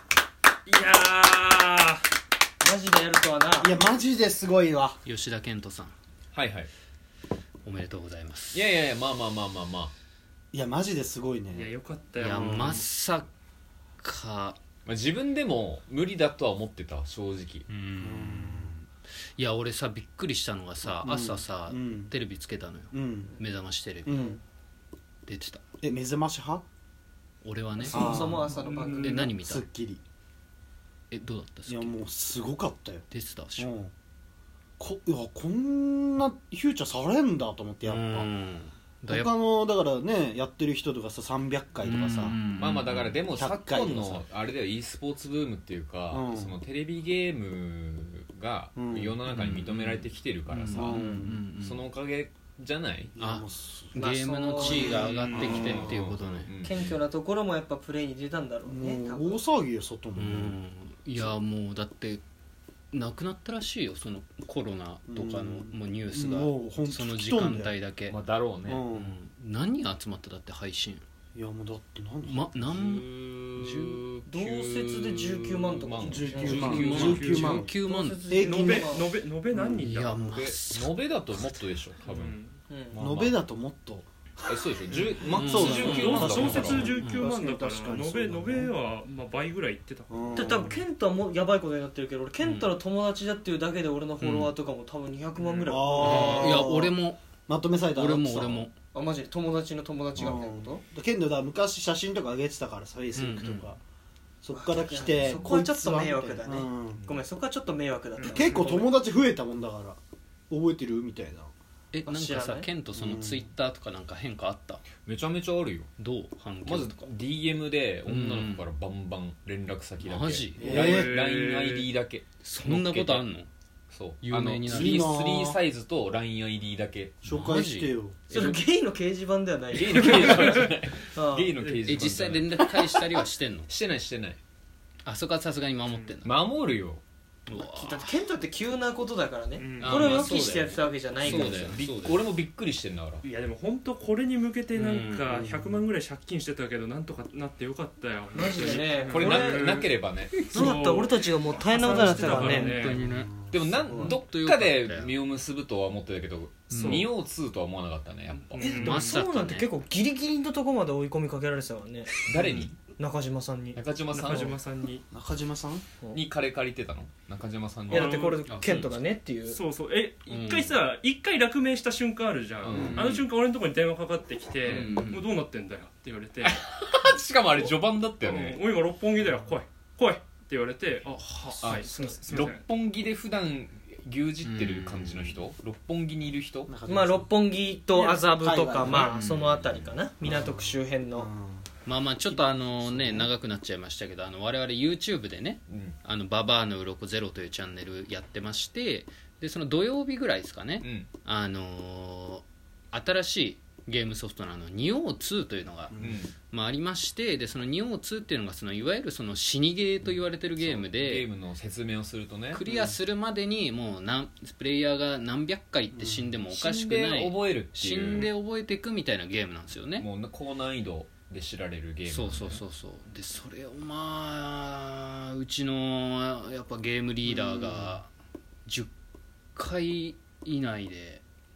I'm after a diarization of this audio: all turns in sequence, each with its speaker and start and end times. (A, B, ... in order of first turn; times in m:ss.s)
0:00.6-0:02.0 A
0:02.6-0:03.8 B
0:03.6-0:05.0 C
0:05.0-0:05.9 D
0:06.3-0:06.7 E
0:07.6-0:08.6 D
0:08.5-0:09.9 E
0:10.5-0:12.8 C
0:11.5-0:12.8 A
0:12.2-0:13.3 D
0:14.0-0:14.6 D
0:14.8-0:17.6 E
0:17.7-0:24.2 D
0:18.0-0:18.7 C
0:21.0-0:22.1 C
0:22.9-0:23.4 C
0:24.0-0:24.4 C
0:24.1-0:24.4 B
0:25.2-0:25.6 D
0:25.8-0:26.6 C
0:27.4-0:28.4 D
0:27.8-0:29.3 B
0:27.9-0:28.5 C
0:28.5-0:29.2 A
0:29.0-0:29.6 D
0:29.2-0:30.0 C
0:31.1-0:32.0 D
0:31.7-0:33.0 C
0:33.1-0:33.7 D
0:33.6-0:33.9 C
0:34.8-0:38.3 C
0:37.8-0:39.3 D
0:39.1-0:42.4 C
0:41.8-0:43.2 D
0:42.5-0:51.0 E
0:43.3-0:44.2 C
0:46.1-0:46.6 C
0:48.8-0:49.2 C
0:49.3-0:51.9 D
0:50.7-0:51.4 C
0:51.6-0:53.1 E
0:53.1-0:54.0 C
0:53.2-0:56.5 D
0:53.9-0:55.3 B
0:54.6-0:56.1 C
0:55.0-0:57.0 E
0:55.2-0:55.6 A
0:56.6-0:59.4 B
0:58.6-1:00.6 C
1:00.2-1:02.2 D
1:02.9-1:08.2 D
1:05.1-1:07.7 C
1:08.1-1:08.8 E
1:08.6-1:09.2 C
1:08.9-1:11.0 D
1:11.3-1:12.6 C
1:12.2-1:14.0 D
1:12.6-1:17.4 E
1:14.2-1:19.1 B
1:16.0-1:17.7 C
1:16.4-1:18.3 D
1:17.0-1:17.7 A
1:18.3-1:18.9 C
1:18.3-1:20.3 A
1:19.5-1:20.5 C
1:19.8-1:21.7 D
1:20.2-1:22.3 E
1:22.0-1:22.6 A
1:22.7-1:23.0 B
1:22.9-1:23.4 E
1:23.0-1:24.1 C
1:24.5-1:26.9 E
1:24.9-1:30.5 A
1:25.3-1:28.7 C
1:25.3-1:26.3 D
1:25.9-1:26.5 B
1:26.9-1:27.2 D
1:30.1-1:30.8 C
1:30.3-1:36.6 B
1:32.4-1:32.7 D
1:34.2-1:34.5 D
1:35.4-1:35.7 A
1:35.6-1:38.7 C
1:36.0-1:37.2 D
1:37.9-1:38.7 D
1:38.9-1:40.8 B
1:40.2-1:43.8 C
1:43.1-1:43.7 D
1:44.4-1:47.0 C
1:44.5-1:48.9 B
1:48.2-1:48.7 A
1:48.3-1:50.0 C
1:50.5-1:51.5 C
1:51.9-1:54.9 D
1:52.1-1:52.7 B
1:52.9-1:53.4 C
1:55.0-1:55.9 E
1:56.0-1:57.1 D
1:56.6-2:03.3 E
1:58.0-1:58.7 D
2:00.0-2:00.9 D
2:00.6-2:01.2 C
2:00.9-2:01.9 A
2:02.4-2:03.5 D
2:03.9-2:07.2 E
2:04.2-2:05.1 D
2:04.7-2:05.6 C
2:07.2-2:08.2 C
2:07.3-2:08.6 D
2:08.3-2:11.6 B
2:09.7-2:12.8 E
2:11.6-2:11.9 A
2:11.8-2:13.7 D
2:13.7-2:14.4 E
2:15.0-2:16.3 D
2:15.8-2:16.2 A
2:16.2-2:17.0 E
2:17.5-2:18.2 D
2:17.5-2:21.8 B
2:19.6-2:20.1 A
2:19.8-2:22.3 D
2:19.9-2:20.4 E
2:21.2-2:23.2 E
2:23.2-2:33.0 A
2:24.7-2:25.3 D
2:25.3-2:25.8 C
2:28.3-2:29.6 B
2:29.0-2:30.5 E
2:30.4-2:30.6 D
2:30.5-2:32.8 B
2:32.1-2:35.2 D
2:32.9-2:33.8 C
2:33.5-2:38.8 E
2:36.7-2:37.1 D
2:36.7-2:37.1 A
2:38.6-2:39.2 A
2:38.6-2:39.7 D
2:38.6-2:42.1 B
2:42.2-2:42.7 E
2:42.3-2:42.7 D
2:43.0-2:44.5 B
2:43.7-2:44.6 E
2:44.1-2:45.0 A
2:45.1-2:45.8 C
2:46.1-2:48.1 E
2:47.9-2:48.5 A
2:47.9-2:49.6 B
2:48.5-2:49.0 D
2:49.4-2:56.6 A
2:50.3-2:50.8 D
2:52.6-2:53.2 E
2:52.7-2:53.2 D
2:54.6-2:55.3 D
2:54.6-2:55.0 E
2:56.4-2:58.6 E
2:57.5-3:02.6 A
3:01.3-3:01.8 D
3:01.6-3:06.7 E
3:01.8-3:02.2 B
3:04.4-3:05.4 D
3:06.7-3:07.3 C
3:06.8-3:11.3 B
3:07.9-3:08.2 A
3:08.2-3:09.1 C
3:08.8-3:10.0 D
3:10.2-3:11.7 C
3:11.8-3:26.0 D
3:12.3-3:13.3 C
3:15.7-3:15.9 E
3:20.8-3:21.1 E
3:25.9-3:26.3 C
3:26.0-3:26.3 E
3:26.5-3:31.3 D
3:30.0-3:32.6 E
3:32.5-3:40.0 D
3:32.7-3:33.0 C
3:35.9-3:36.3 C
3:36.5-3:38.3 E
3:40.0-3:42.6 E
3:42.0-3:48.1 D
3:47.2-3:48.0 C
3:48.6-3:48.9 D
3:49.6-3:51.2 D